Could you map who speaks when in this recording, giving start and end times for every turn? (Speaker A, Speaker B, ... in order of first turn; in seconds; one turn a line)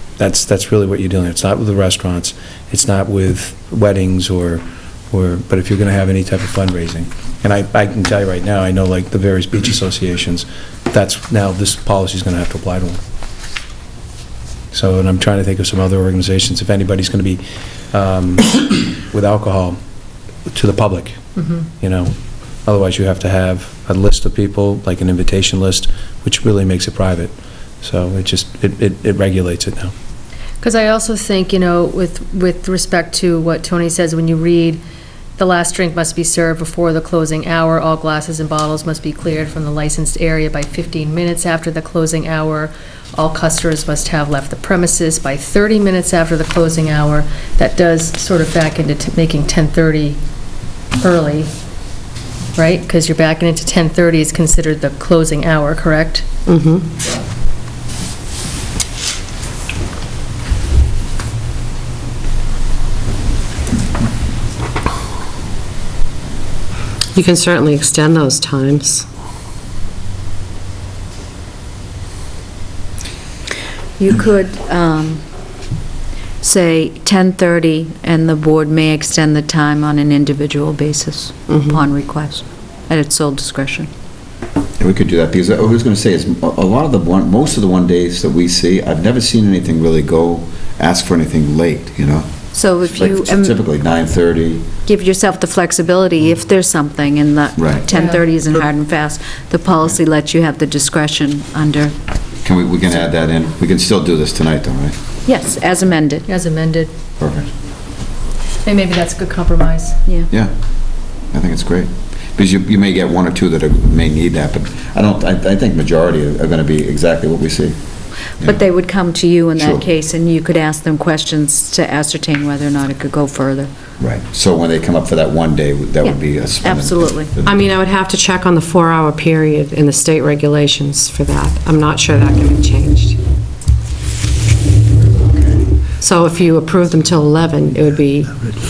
Speaker A: 0.2-13.0
Speaker A: 14.7-19.8
Speaker A: 20.5-21.2
Speaker B: 21.4-21.7
Speaker A: 21.8-22.1
Speaker A: 22.6-29.9
Speaker B: 30.6-34.8
Speaker B: 35.4-50.2
Speaker B: 51.0-51.5
Speaker B: 52.6-56.2
Speaker C: 56.5-56.8
Speaker C: 67.2-69.0
Speaker D: 74.0-75.2
Speaker D: 76.4-83.9
Speaker E: 84.8-92.3
Speaker D: 92.5-93.6
Speaker E: 92.9-94.7
Speaker D: 94.9-101.9
Speaker E: 97.6-97.8
Speaker B: 97.9-98.2
Speaker E: 102.4-105.0
Speaker D: 105.3-106.3
Speaker B: 106.3-106.9
Speaker E: 107.2-107.5
Speaker B: 108.7-110.0
Speaker E: 111.3-117.8
Speaker D: 118.4-123.7
Speaker E: 119.6-119.8
Speaker E: 124.0-127.7
Speaker D: 126.0-127.3
Speaker C: 127.4-133.2
Speaker E: 135.2-135.6
Speaker C: 136.0-138.5